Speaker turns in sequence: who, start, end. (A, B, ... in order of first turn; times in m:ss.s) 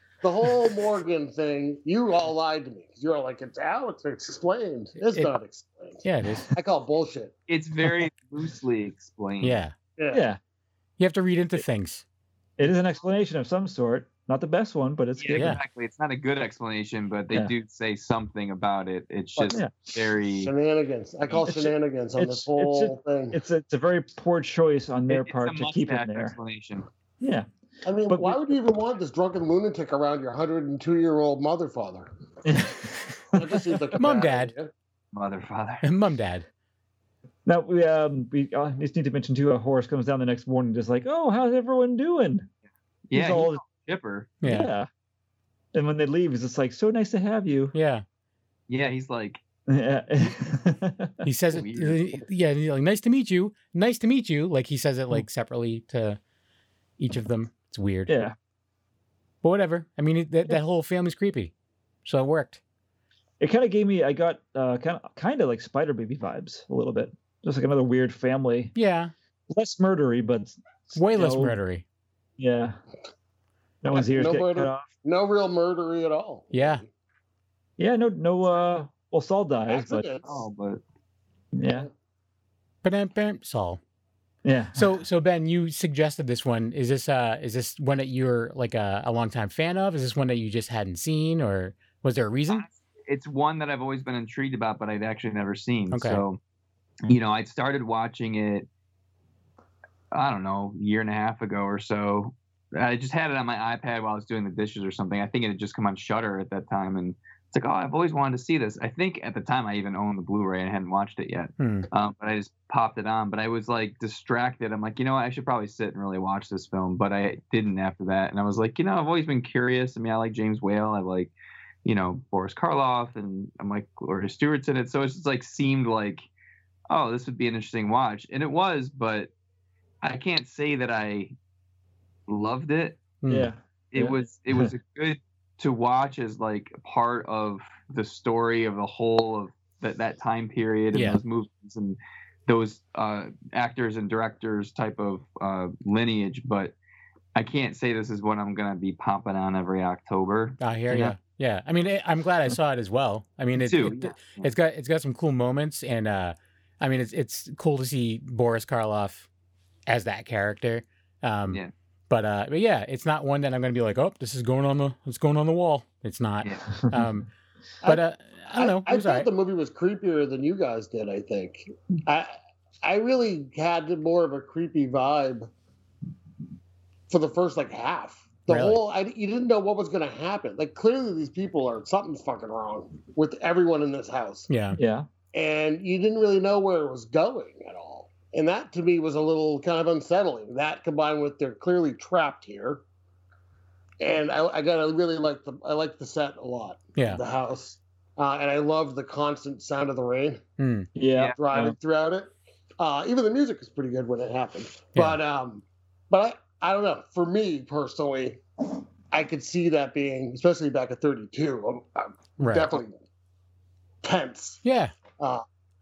0:00.2-0:07.3 A
0:05.0-0:05.4 B
0:06.0-0:06.5 B
0:07.5-0:09.6 C
0:09.4-0:09.7 B
0:10.0-0:10.2 A
0:10.1-0:10.4 D
0:11.0-0:12.0 B
0:12.6-0:15.6 D
0:15.2-0:20.5 C
0:15.3-0:15.6 B
0:19.5-0:20.0 D
0:20.4-0:23.4 A
0:21.3-0:26.3 D
0:25.1-0:26.9 C
0:27.2-0:27.5 D
0:27.8-0:32.1 A
0:28.1-0:28.6 D
0:32.4-0:33.6 D
0:33.3-0:34.7 A
0:34.0-0:34.5 B
0:35.1-0:35.8 C
0:35.8-0:36.4 B
0:37.4-0:42.5 D
0:43.1-0:44.3 C
0:43.1-0:43.6 D
0:44.4-0:44.7 B
0:44.4-0:44.9 D
0:45.7-0:47.7 D
0:47.7-0:48.0 B
0:48.7-0:49.4 C
0:49.7-0:51.2 D
0:51.2-0:56.2 B
0:51.5-0:52.2 C
0:57.0-0:58.1 B
0:58.1-0:58.3 D
0:59.4-1:01.5 B
1:02.0-1:02.6 B
1:03.4-1:08.7 D
1:08.7-1:09.1 B
1:09.5-1:11.6 D
1:10.9-1:11.8 B
1:12.4-1:12.8 D
1:13.8-1:14.9 D
1:13.9-1:16.9 A
1:16.5-1:16.8 B
1:17.8-1:20.1 D
1:19.7-1:20.4 A
1:20.2-1:20.8 C
1:21.5-1:21.9 D
1:22.8-1:23.8 B
1:24.4-1:24.9 D
1:24.7-1:32.6 B
1:32.5-1:36.4 C
1:35.9-1:36.2 B
1:37.0-1:38.7 C
1:40.1-2:01.3 C
1:51.6-1:51.9 B
2:01.8-2:06.2 C
2:06.9-2:09.3 C
2:10.0-2:11.3 C
2:12.3-2:13.0 C
2:13.2-2:13.5 B
2:13.3-2:14.7 D
2:13.9-2:26.7 C
2:20.9-2:21.2 B
2:27.3-2:31.2 C
2:30.6-2:39.3 B
2:33.6-2:34.5 C
2:39.9-2:47.3 B
2:46.9-2:47.1 D
2:47.8-2:49.3 B
2:48.6-2:55.5 A
2:57.1-3:04.5 A
2:58.5-2:58.8 B
3:04.5-3:04.8 B
3:04.7-3:05.1 D
3:05.3-3:12.8 A
3:14.0-3:20.4 A
3:17.0-3:17.2 B
3:20.6-3:20.9 B
3:20.9-3:21.8 D
3:21.4-3:28.4 A
3:29.1-3:33.0 A
3:32.4-3:32.8 B
3:34.0-3:34.6 A
3:34.6-3:34.9 B
3:35.2-3:35.4 A